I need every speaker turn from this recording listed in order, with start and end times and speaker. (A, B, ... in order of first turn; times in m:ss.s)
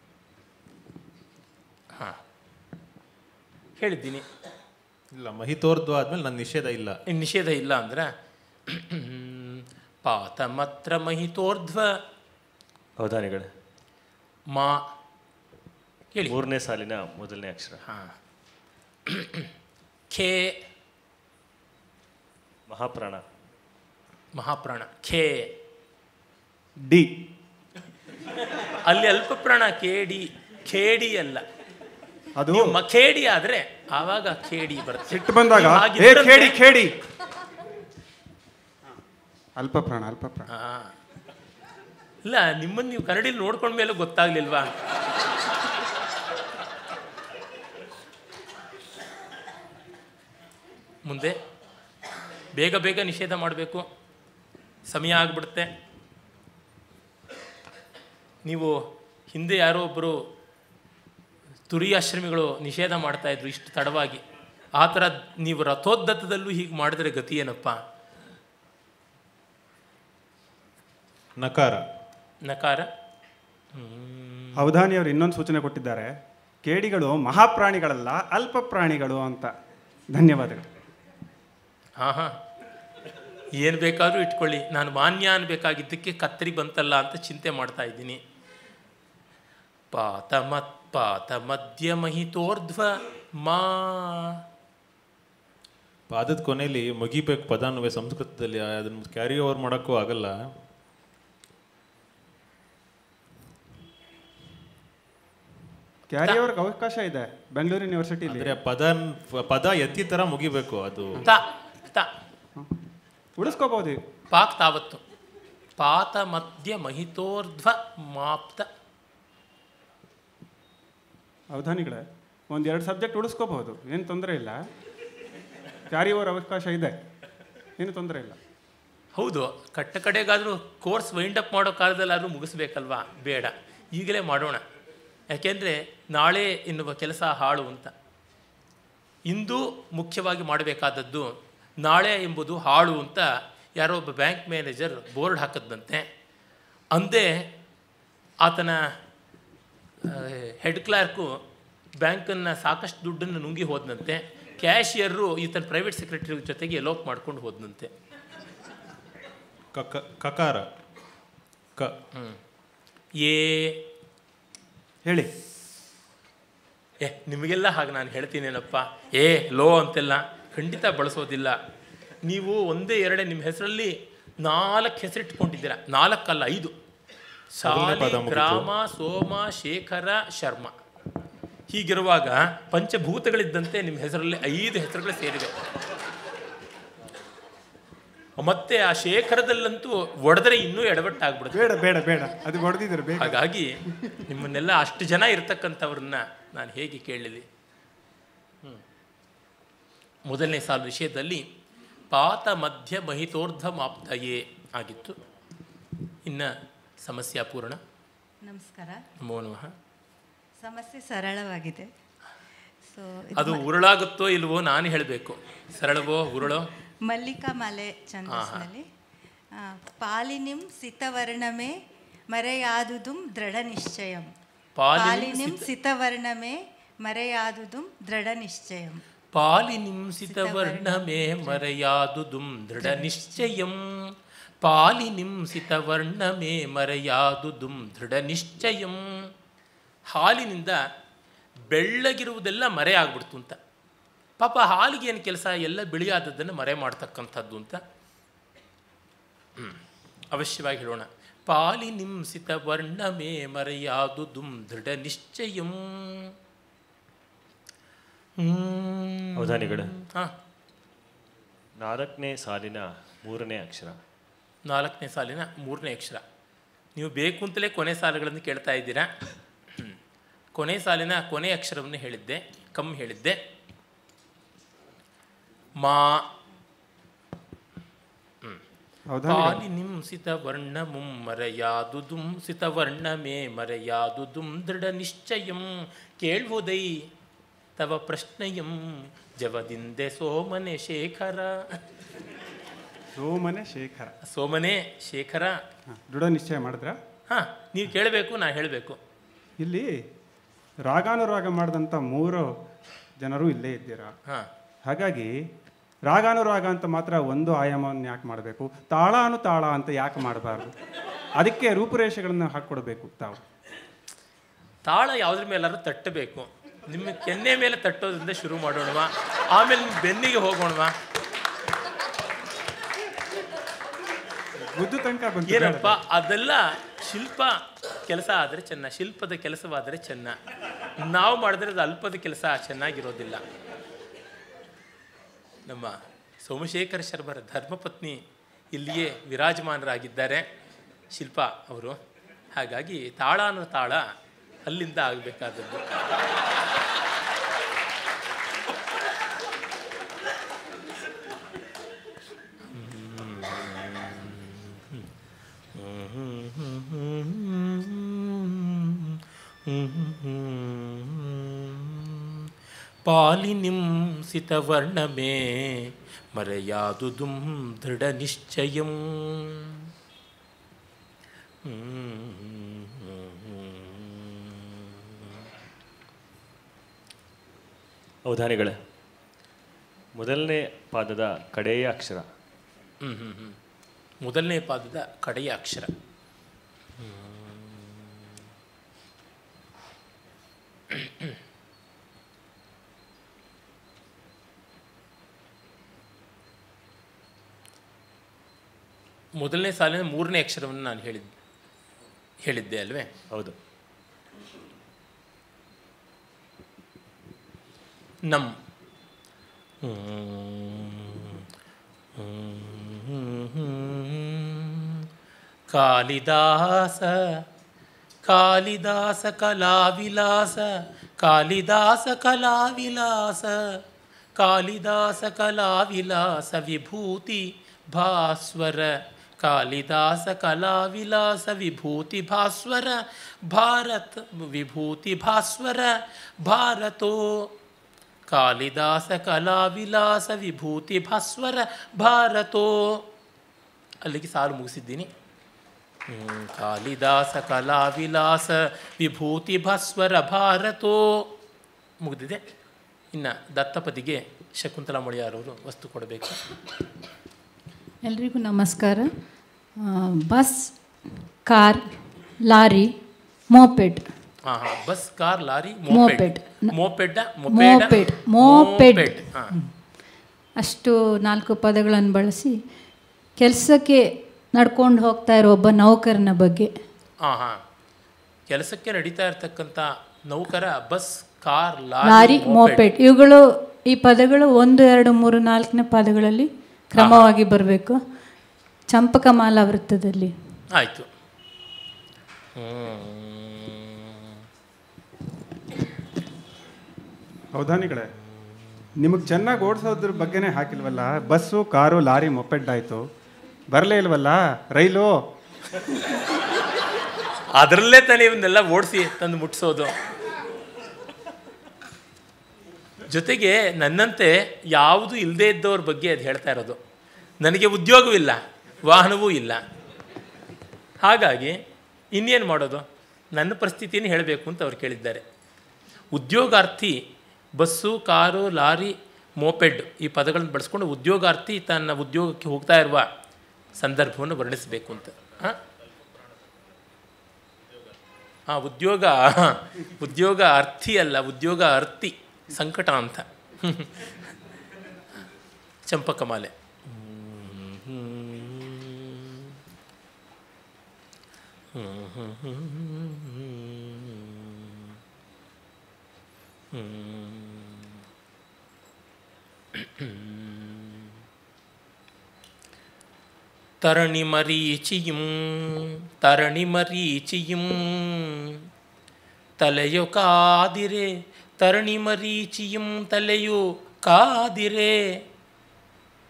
0:03.8-0:04.3 A
0:05.1-0:07.0 B
0:07.1-0:08.1 A
0:08.7-0:12.0 A
0:13.0-0:13.5 C
0:14.5-0:14.8 A
0:16.3-0:17.8 C
0:17.9-0:18.1 A
0:19.1-0:19.5 A
0:20.1-0:20.6 A
0:22.7-0:23.2 C
0:24.4-0:25.5 A
0:26.8-0:27.2 D
0:28.6-0:31.4 A
0:32.4-0:32.8 D
0:32.5-0:36.6 A
0:35.1-0:36.9 D
0:39.6-0:40.5 D
0:40.5-0:40.9 A
0:42.2-0:44.7 A
0:51.0-0:51.4 A
0:52.6-0:53.9 A
0:54.9-0:55.7 A
0:58.4-1:00.2 A
1:01.7-1:04.2 A
1:04.8-1:07.8 A
1:11.4-1:11.8 B
1:12.5-1:12.9 A
1:13.8-1:14.6 A
1:14.6-1:19.5 D
1:20.2-1:20.7 D
1:22.0-1:22.4 A
1:23.6-1:28.2 A
1:29.9-1:34.4 A
1:36.1-1:40.4 B
1:46.1-1:48.6 D
1:48.3-1:51.2 B
1:51.2-1:52.1 A
1:53.4-1:54.0 D
1:54.3-1:55.0 A
1:55.8-1:58.7 A
2:01.5-2:04.6 D
2:05.9-2:07.0 D
2:07.8-2:08.4 D
2:09.2-2:14.6 A
2:15.3-2:17.9 A
2:19.3-2:26.1 A
2:27.0-2:27.5 A
2:28.4-2:28.9 A
2:30.0-2:31.4 A
2:32.0-2:37.9 A
2:39.7-2:40.7 B
2:43.2-2:43.8 A
2:45.0-2:45.3 D
2:47.0-2:51.6 A
2:52.2-2:56.7 A
2:57.6-3:00.7 A
2:57.6-2:58.7 B
3:01.7-3:05.6 A
3:08.4-3:11.8 A
3:11.5-3:14.2 D
3:13.2-3:17.5 A
3:20.3-3:21.5 A
3:22.1-3:25.2 A
3:27.0-3:27.8 A
3:28.5-3:29.0 E
3:29.2-3:29.7 A
3:30.6-3:31.9 E
3:32.8-3:33.7 E
3:33.4-3:36.7 A
3:37.0-3:38.8 E
3:38.3-3:38.7 A
3:39.6-3:41.8 E
3:42.3-3:44.3 E
3:44.8-3:45.7 A
3:45.0-3:49.0 E
3:49.3-3:54.0 A
3:50.3-3:51.6 E
3:52.8-3:53.4 E
3:54.6-3:59.3 A
4:00.1-4:00.8 A
4:01.7-4:03.6 A
4:04.4-4:07.8 A
4:10.3-4:16.3 A
4:18.4-4:20.3 A
4:19.4-4:19.9 C
4:21.8-4:24.0 C
4:24.7-4:26.2 A
4:27.0-4:29.1 A
4:30.6-4:33.4 A
4:35.8-4:36.2 A
4:39.1-4:39.6 D
4:39.3-4:47.1 A
4:47.8-4:51.8 A
4:53.2-4:54.2 D
4:54.3-4:55.6 A
4:56.1-4:57.0 D
4:57.3-4:59.0 A
4:59.6-5:00.1 D
5:00.8-5:02.6 D
5:03.2-5:04.1 D
5:04.9-5:05.4 D
5:06.1-5:10.8 D
5:11.4-5:13.4 D
5:14.9-5:21.0 A
5:24.7-5:26.0 D
5:25.5-5:30.4 A
5:31.0-5:33.4 A
5:35.7-5:38.2 A
5:38.7-5:40.5 A
5:41.1-5:42.0 A
5:42.6-5:44.1 A
5:44.7-5:46.0 A
5:52.7-5:55.1 A
5:55.7-6:02.5 A
6:03.1-6:09.8 A
6:11.7-6:15.4 A
6:18.3-6:18.8 C
6:20.2-6:22.3 C
6:23.0-6:23.6 A
6:24.2-6:25.9 A
6:27.0-6:28.2 A
6:31.0-6:31.3 A
6:39.4-6:41.3 A
6:42.4-6:43.1 A
6:49.8-6:51.4 A
6:52.2-6:55.1 A
6:55.7-6:57.4 A
6:58.3-7:03.8 A
7:04.4-7:17.5 A
7:18.3-7:23.1 A
7:24.0-7:25.1 A
7:26.1-7:31.3 A
7:32.0-7:32.4 A
7:33.1-7:36.4 A
7:38.0-7:39.1 F
7:39.8-7:43.0 F
7:43.5-7:44.1 F
7:44.5-7:49.5 A
7:45.9-7:46.8 F
7:47.5-7:49.7 F
7:50.6-7:52.6 F
7:53.4-7:56.7 F
7:57.2-7:57.6 A
7:58.5-8:02.9 A
8:02.0-8:08.0 F
8:07.0-8:07.3 A
8:08.9-8:10.3 F
8:10.7-8:11.1 A
8:12.6-8:14.4 A
8:17.5-8:18.1 D
8:19.0-8:23.1 D
8:23.7-8:25.3 D
8:27.5-8:29.9 A
8:33.1-8:36.8 A
8:37.4-8:39.6 A
8:41.0-8:41.6 A
8:42.1-8:45.2 A
8:46.1-8:47.0 A
8:47.6-8:53.1 A
8:53.8-8:55.6 A
8:58.5-9:04.3 A
9:05.9-9:09.6 A
9:11.7-9:15.0 A
9:16.7-9:17.9 A
9:19.8-9:21.1 A
9:23.8-9:28.6 A
9:29.6-9:35.1 A